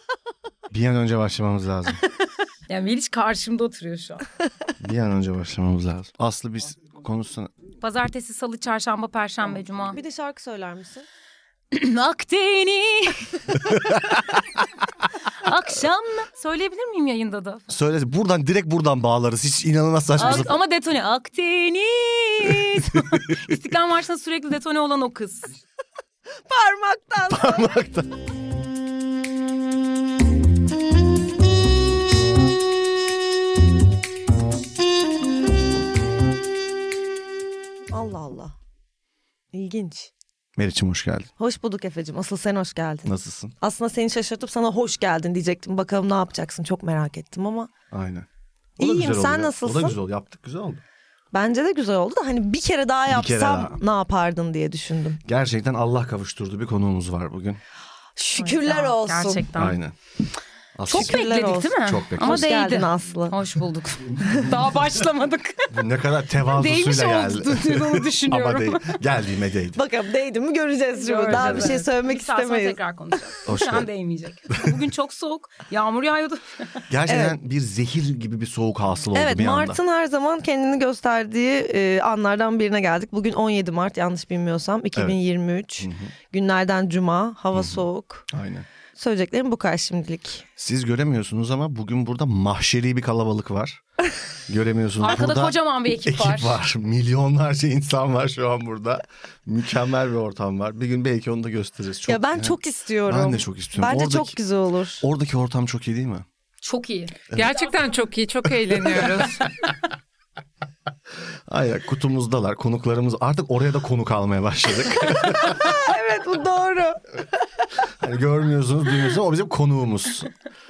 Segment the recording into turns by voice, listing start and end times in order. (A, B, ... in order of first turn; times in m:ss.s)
0:00.7-0:02.0 A
0:02.7-0:04.2 B
0:04.8-0:07.5 A
0:07.8-0:10.0 B
0:09.9-0:11.0 C
0:11.7-0:13.6 B
0:15.3-0:17.6 B
0:17.7-0:20.6 A
0:20.2-0:25.6 B
0:26.5-0:27.8 C
0:27.3-0:28.1 A
0:37.9-0:38.6 C
0:39.5-0:40.1 C
0:40.6-0:41.3 A
0:41.4-0:47.7 C
0:43.0-0:43.5 A
0:47.9-0:48.3 A
0:48.8-0:50.8 A
0:48.8-0:50.0 C
0:51.3-0:55.2 C
0:53.1-0:53.8 A
0:55.2-0:57.6 A
0:58.2-0:59.5 C
0:58.4-0:59.8 B
0:59.5-1:00.0 A
1:00.7-1:01.2 A
1:00.9-1:03.3 C
1:00.9-1:05.8 B
1:01.8-1:02.6 A
1:05.7-1:09.8 A
1:06.4-1:09.0 B
1:09.7-1:12.8 C
1:11.0-1:16.8 B
1:11.3-1:11.7 A
1:13.4-1:13.9 A
1:16.9-1:19.8 A
1:17.1-1:17.3 C
1:19.1-1:28.3 C
1:25.8-1:26.1 A
1:27.5-1:28.7 A
1:29.0-1:30.4 C
1:30.6-1:33.8 A
1:34.5-1:44.4 A
1:35.0-1:36.6 B
1:42.1-1:45.0 C
1:45.0-1:46.2 A
1:46.6-1:47.8 B
1:47.3-1:49.6 D
1:51.5-1:55.8 A
1:55.2-1:57.2 C
1:58.0-2:00.3 A